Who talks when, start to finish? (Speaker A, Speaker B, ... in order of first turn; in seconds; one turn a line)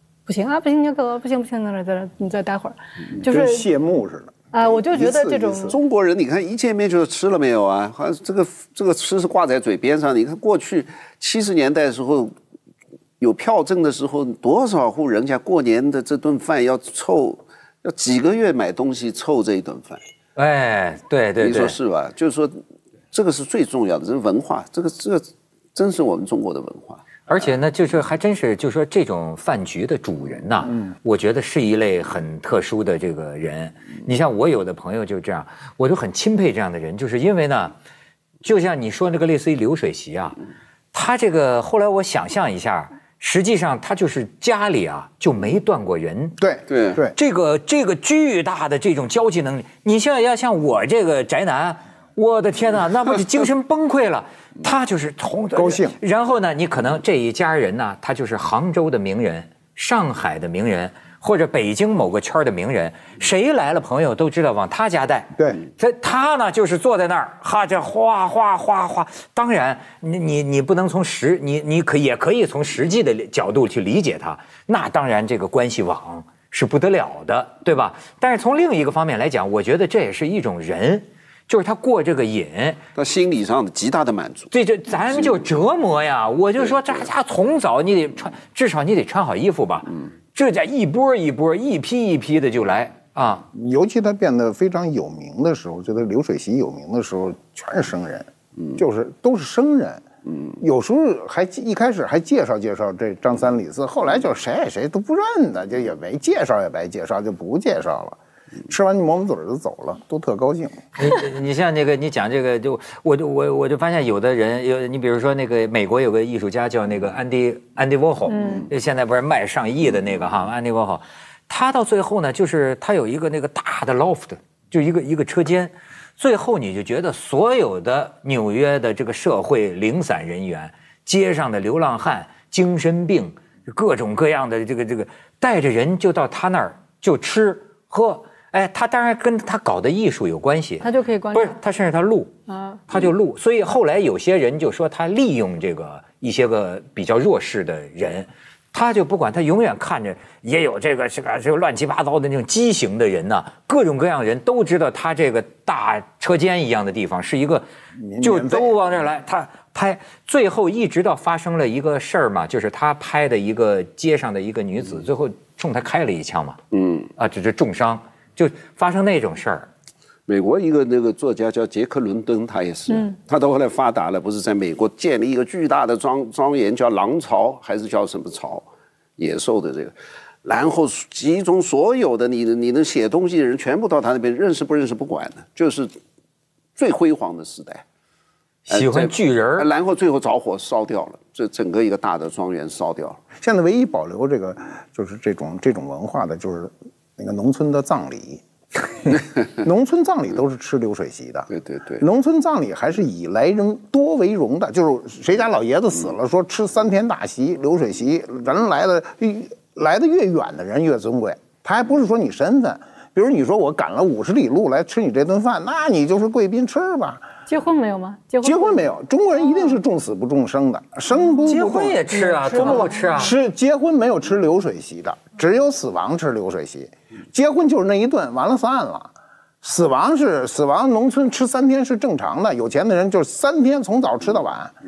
Speaker A: 0.3-3.7
Speaker B: 3.2-5.8
Speaker A: 4.5-5.8
Speaker C: 5.7-12.3
Speaker C: 13.2-20.0
Speaker D: 20.4-21.8
Speaker C: 21.4-22.6
Speaker C: 23.1-27.2
Speaker D: 27.3-37.8
Speaker D: 38.4-40.4
Speaker D: 40.9-46.4
Speaker B: 46.4-47.1
Speaker C: 46.7-47.0
Speaker D: 47.1-82.8
Speaker B: 55.5-56.0
Speaker B: 65.4-65.6
Speaker C: 83.0-84.5
Speaker D: 84.5-93.5
Speaker B: 93.5-100.0
Speaker B: 100.6-110.8
Speaker D: 111.0-142.3
Speaker A: 118.3-118.7
Speaker A: 140.8-141.6
Speaker A: 142.5-142.8
Speaker D: 142.9-157.7
Speaker B: 158.0-158.8
Speaker D: 158.2-166.6
Speaker C: 166.7-167.1
Speaker D: 167.2-169.7
Speaker C: 170.3-178.7
Speaker C: 179.2-185.9
Speaker C: 186.8-187.8
Speaker C: 188.7-193.2
Speaker D: 188.7-189.7
Speaker B: 193.4-201.5
Speaker C: 201.5-202.0
Speaker B: 202.0-217.3
Speaker A: 217.5-218.9
Speaker B: 218.4-234.8
Speaker A: 219.5-219.8
Speaker D: 221.4-223.3
Speaker A: 222.1-223.3